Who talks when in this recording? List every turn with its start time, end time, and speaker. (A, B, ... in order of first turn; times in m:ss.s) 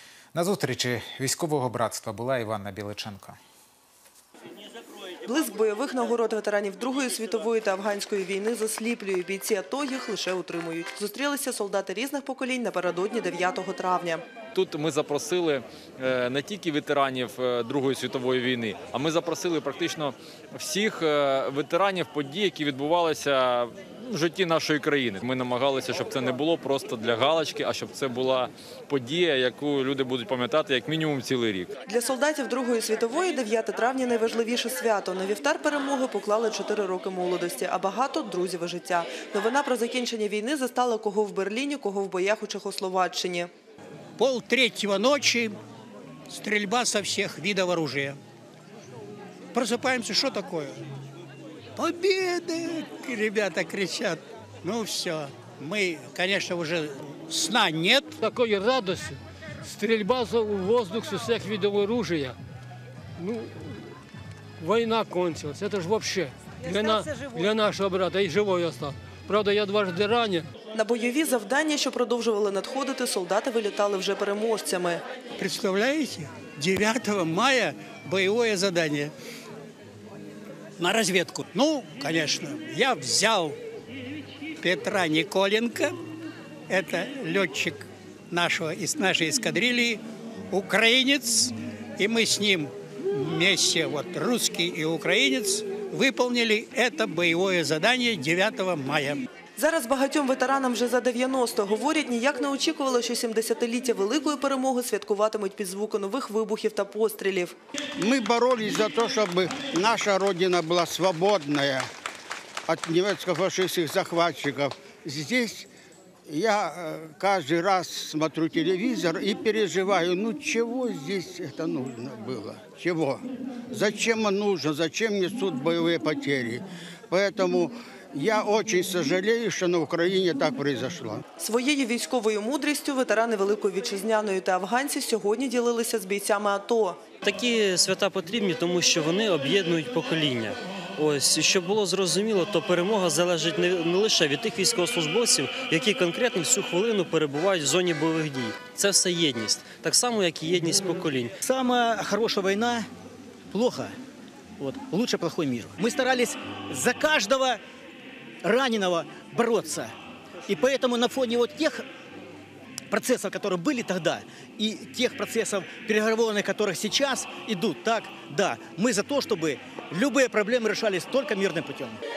0:00.3-0:03.4 A
0:05.2-0:14.2 B
0:14.5-0:31.7 C
0:31.8-0:43.5 B
0:44.2-0:45.5 D
0:46.3-0:48.2 D
0:49.5-0:50.8 D
0:51.8-0:58.2 D
0:58.2-1:02.4 E
1:03.2-1:03.9 E
1:04.6-1:10.5 E
1:10.7-1:15.0 B
1:15.4-1:19.1 D
1:20.8-1:23.6 D
1:24.6-1:26.0 D
1:26.7-1:39.2 D
1:39.6-1:47.6 B
1:48.0-1:51.8 F
1:52.7-1:55.7 F
1:56.3-2:11.2 F
2:11.4-2:17.0 B
2:17.2-2:31.3 G
2:31.4-2:32.9 H
2:33.5-2:33.9 H
2:34.6-2:37.6 H
2:38.4-2:39.9 H
2:40.5-2:41.8 H
2:42.9-2:52.0 H